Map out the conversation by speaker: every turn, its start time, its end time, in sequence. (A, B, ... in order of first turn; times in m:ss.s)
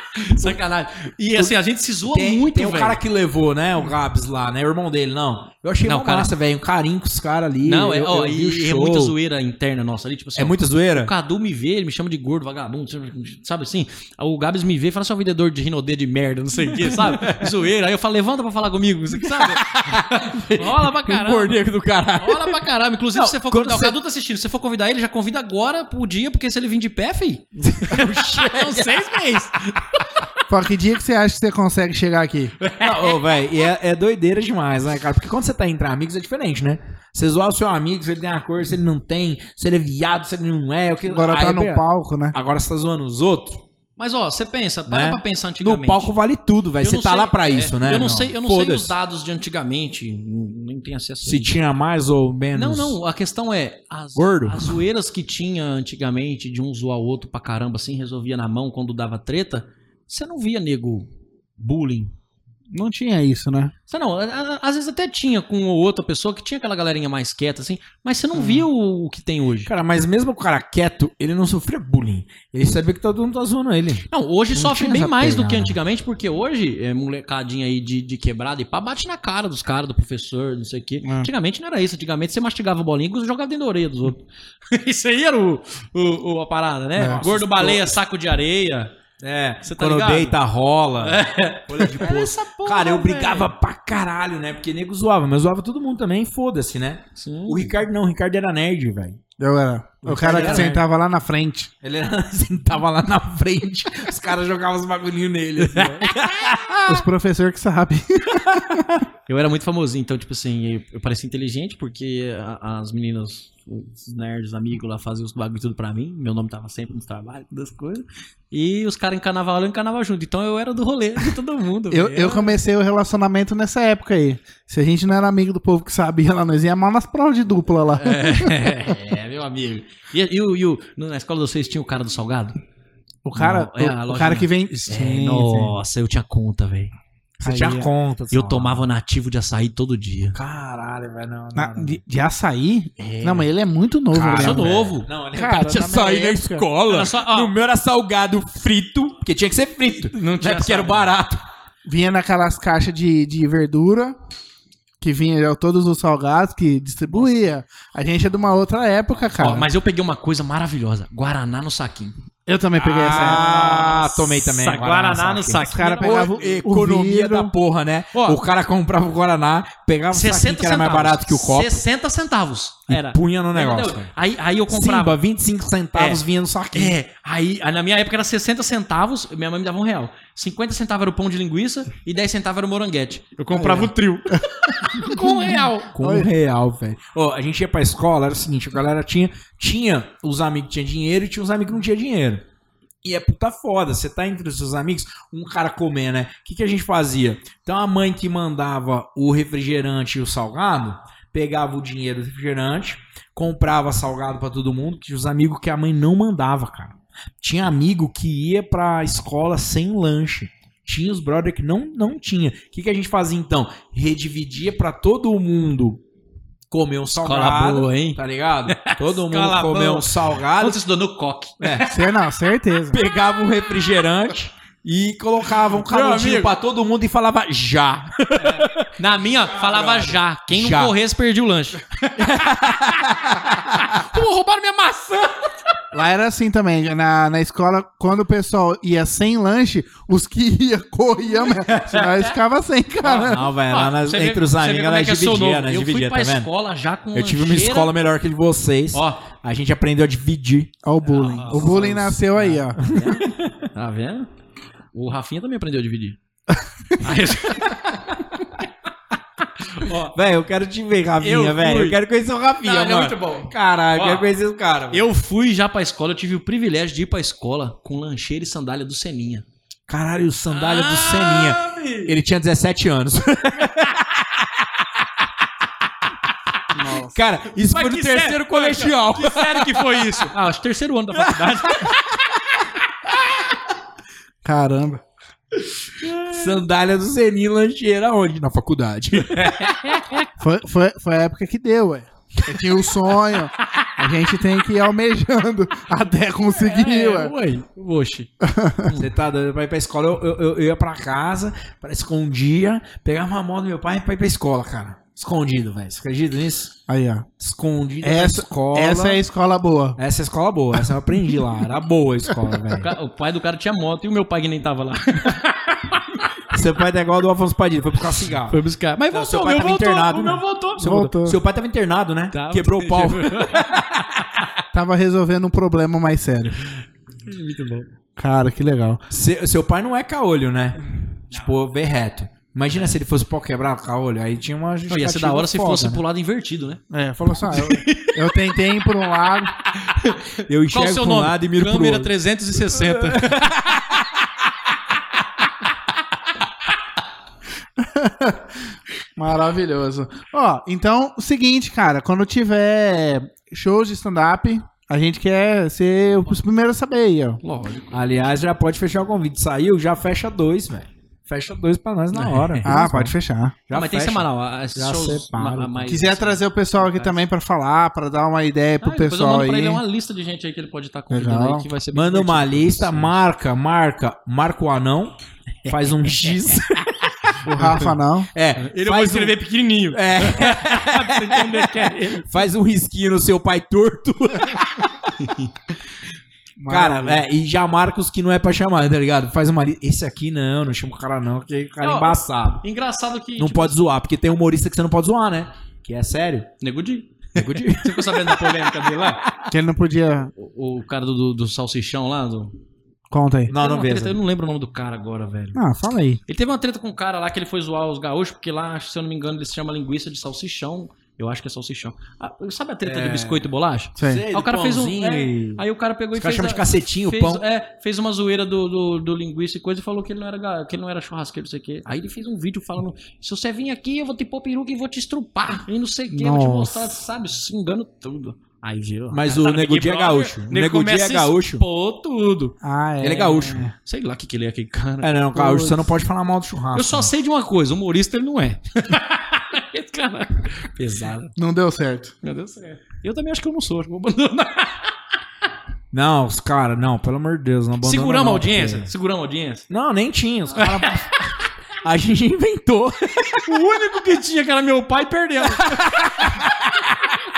0:00.2-0:03.0 A
0:00.3-0:00.6 B
0:02.1-0:09.1 B
0:05.8-0:06.3 A
0:07.6-0:21.6 A
0:10.4-0:11.1 B
0:16.8-0:17.5 B
0:19.2-0:22.6 B
0:22.2-0:30.3 A
0:23.1-0:24.0 B
0:27.6-0:29.2 B
0:30.5-0:32.5 C
0:32.6-0:33.2 A
0:32.8-0:43.6 B
0:41.0-0:42.4 C
0:44.0-0:46.1 A
0:44.9-0:48.9 B
0:46.8-0:51.5 A
0:51.2-0:53.0 B
0:52.5-1:02.1 A
0:54.2-0:54.8 B
1:02.7-1:03.7 C
1:03.9-1:09.7 A
1:09.6-1:15.8 B
1:14.1-1:28.9 A
1:21.0-1:21.3 C
1:27.0-1:27.9 B
1:29.2-1:39.2 B
1:29.6-1:30.4 A
1:31.0-1:33.5 A
1:37.2-1:37.7 A
1:39.4-1:41.7 C
1:40.0-1:40.8 B
1:40.2-1:40.8 A
1:41.8-1:47.0 B
1:45.6-1:46.5 A
1:46.9-1:48.9 C
1:49.3-2:02.6 A
2:01.9-2:08.7 C
2:08.0-2:12.6 A
2:13.2-2:15.8 C
2:13.3-2:16.9 A
2:17.4-2:18.9 B
2:17.4-2:17.9 C
2:18.3-2:20.4 A
2:20.3-2:22.0 B
2:21.5-2:24.7 C
2:23.0-2:23.4 B
2:24.1-2:31.4 B
2:24.2-2:25.1 A
2:25.3-2:26.6 C
2:26.8-2:27.5 A
2:30.1-2:31.1 A
2:31.8-2:34.2 C
2:35.0-2:39.7 C
2:39.4-2:42.1 A
2:42.5-2:43.5 C
2:42.8-2:51.8 B
2:42.9-2:46.6 A
2:45.6-2:47.5 C
2:48.1-2:48.4 A
2:50.1-2:55.2 A
2:52.9-2:54.1 B
2:54.7-2:57.0 B
2:55.9-3:06.0 A
3:03.5-3:05.5 C
3:05.4-3:12.4 B
3:06.0-3:06.3 C
3:13.0-3:36.0 B
3:36.7-3:40.8 B
3:37.1-3:41.9 A
3:41.6-3:41.9 B
3:41.8-3:43.0 C
3:42.9-3:50.9 B
3:45.8-3:46.5 A
3:48.3-3:55.5 A
3:52.2-3:53.8 B
3:55.9-4:03.5 C
4:01.5-4:02.4 A
4:03.0-4:07.9 A
4:03.1-4:06.5 B
4:07.1-4:10.7 B
4:08.9-4:09.2 A
4:10.8-4:12.8 C
4:11.0-4:14.3 A
4:11.5-4:12.1 B
4:12.8-4:13.7 B
4:14.9-4:16.2 A
4:17.0-4:18.5 A
4:19.6-4:20.1 A
4:20.1-4:25.1 B
4:21.2-4:22.0 A
4:22.6-4:24.3 A
4:24.9-4:29.4 A
4:29.9-4:35.0 B
4:30.5-4:32.1 A
4:36.7-4:37.1 C
4:37.0-4:40.2 B
4:37.5-4:42.2 A
4:41.1-4:42.0 B
4:44.4-4:45.0 C
4:45.8-4:46.6 A
4:46.3-4:49.8 B
4:49.2-4:50.3 A
4:50.4-4:57.3 C
4:56.5-4:58.3 A
4:58.4-4:58.9 C
4:58.8-4:59.1 A
4:59.0-5:06.8 B
5:06.9-5:07.3 C
5:07.4-5:09.2 B
5:08.0-5:10.0 C
5:10.0-5:12.9 B
5:12.7-5:16.2 A
5:16.5-5:18.6 B
5:18.5-5:20.9 A
5:19.1-5:24.2 B
5:20.8-5:21.4 C
5:22.3-5:23.8 A
5:24.7-5:26.6 C
5:27.2-5:27.9 A
5:28.2-5:29.0 C
5:29.1-5:36.0 B
5:34.9-5:36.8 A
5:36.9-5:39.6 C
5:37.4-5:38.4 A
5:39.7-5:44.0 A
5:40.5-5:42.1 B
5:42.7-5:44.0 B
5:47.8-5:48.5 C
5:49.2-5:57.4 C
5:57.4-5:58.0 A
5:57.9-6:03.2 B
6:02.1-6:02.8 A
6:02.6-6:03.6 C
6:03.7-6:06.0 B
6:03.7-6:07.2 A
6:05.9-6:09.8 C
6:08.8-6:13.2 A
6:11.1-6:11.7 C
6:11.9-6:19.4 B
6:15.6-6:16.6 A
6:17.4-6:18.0 A
6:17.5-6:18.3 C
6:18.6-6:22.4 A
6:19.9-6:25.1 B
6:25.2-6:25.5 A
6:26.6-6:27.2 C
6:26.7-6:32.6 B
6:31.8-6:33.9 A
6:33.4-6:36.5 B
6:36.6-6:39.3 A
6:37.4-6:39.2 B
6:39.5-6:40.3 C
6:40.4-6:42.6 A
6:43.1-6:43.5 C
6:43.5-6:44.2 B
6:43.5-6:45.6 A
6:45.5-6:46.2 C
6:46.3-7:12.6 A
6:52.8-6:53.5 B
6:54.0-6:54.2 C
6:54.0-6:57.4 B
7:06.1-7:06.9 C
7:09.1-7:11.6 B
7:12.6-7:13.7 C
7:13.0-7:13.7 B
7:13.1-7:15.2 A
7:15.0-7:17.1 B
7:15.3-7:15.9 C
7:16.7-7:21.3 A
7:21.4-7:22.1 C
7:22.2-7:24.9 A
7:25.9-7:28.9 B
7:27.8-7:29.6 A
7:29.7-7:31.2 B
7:30.5-7:31.4 A
7:31.8-7:33.5 B
7:33.4-7:36.5 A
7:35.6-7:36.9 B